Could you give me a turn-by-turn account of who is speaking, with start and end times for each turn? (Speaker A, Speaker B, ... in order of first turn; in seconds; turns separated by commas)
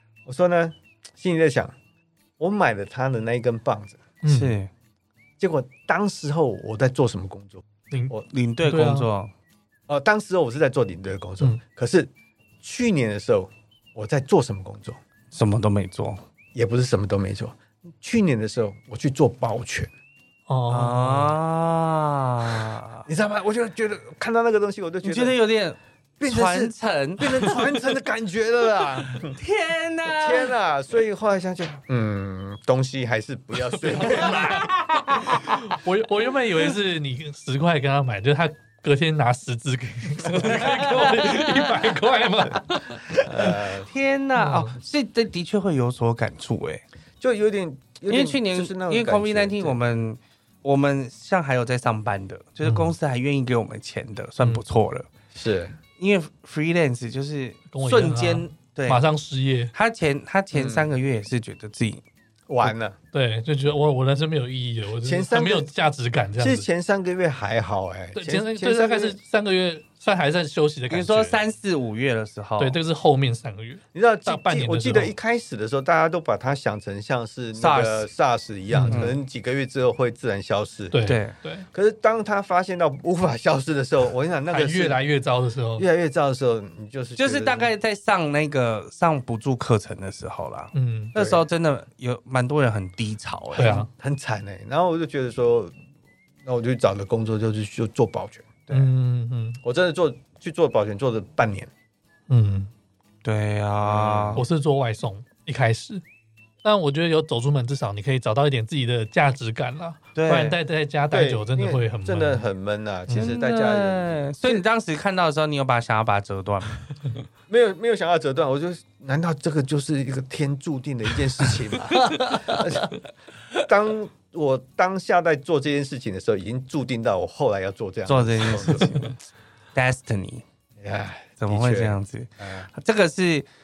Speaker A: 0.3-1.7, Speaker A: 2.4-4.1, Speaker B: 4.2-4.6, Speaker C: 4.3-4.7, Speaker A: 5.4-8.3, Speaker B: 7.9-9.1, Speaker C: 8.3-9.3, Speaker A: 9.9-12.1, Speaker A: 12.6-15.0, Speaker C: 15.3-16.2, Speaker A: 16.6-19.9, Speaker B: 20.5-21.4, Speaker C: 20.7-23.1, Speaker A: 23.1-25.4, Speaker C: 25.0-27.5, Speaker A: 26.2-29.4, Speaker C: 29.4-30.5, Speaker A: 30.1-34.7, Speaker B: 33.5-43.6, Speaker C: 34.2-35.7, Speaker C: 40.3-42.0, Speaker A: 43.1-43.9, Speaker C: 43.5-46.9, Speaker B: 44.4-44.8, Speaker A: 47.2-49.8, Speaker C: 48.1-55.1, Speaker B: 52.6-52.9, Speaker A: 55.3-55.8, Speaker C: 56.0-59.0, Speaker B: 57.7-59.7, Speaker C: 59.7-62.0, Speaker A: 60.5-60.9, Speaker A: 62.5-63.0, Speaker B: 62.6-66.7, Speaker A: 65.0-65.7, Speaker A: 66.4-69.2, Speaker B: 68.2-71.4, Speaker C: 70.9-72.8, Speaker B: 72.6-75.2, Speaker A: 73.9-81.0, Speaker C: 77.5-78.1, Speaker B: 78.7-79.1, Speaker C: 78.9-79.2, Speaker B: 80.9-81.7, Speaker C: 81.0-81.3, Speaker A: 81.7-85.0, Speaker B: 84.5-85.9, Speaker A: 85.8-87.7, Speaker C: 87.2-93.9, Speaker B: 90.7-91.2, Speaker A: 91.2-91.4, Speaker A: 93.5-95.7, Speaker B: 93.5-93.9, Speaker A: 96.5-98.9, Speaker B: 98.7-99.6, Speaker A: 99.6-101.7, Speaker B: 102.3-102.7, Speaker C: 103.2-104.5, Speaker A: 103.8-104.5, Speaker B: 104.4-106.0, Speaker B: 106.6-112.5, Speaker C: 110.2-110.6, Speaker A: 111.1-114.6, Speaker B: 113.1-113.3, Speaker C: 113.1-116.8, Speaker A: 117.5-122.9, Speaker C: 122.0-122.7, Speaker A: 123.7-129.0, Speaker C: 128.1-129.1, Speaker C: 129.8-130.4, Speaker A: 130.8-132.7, Speaker C: 131.4-133.5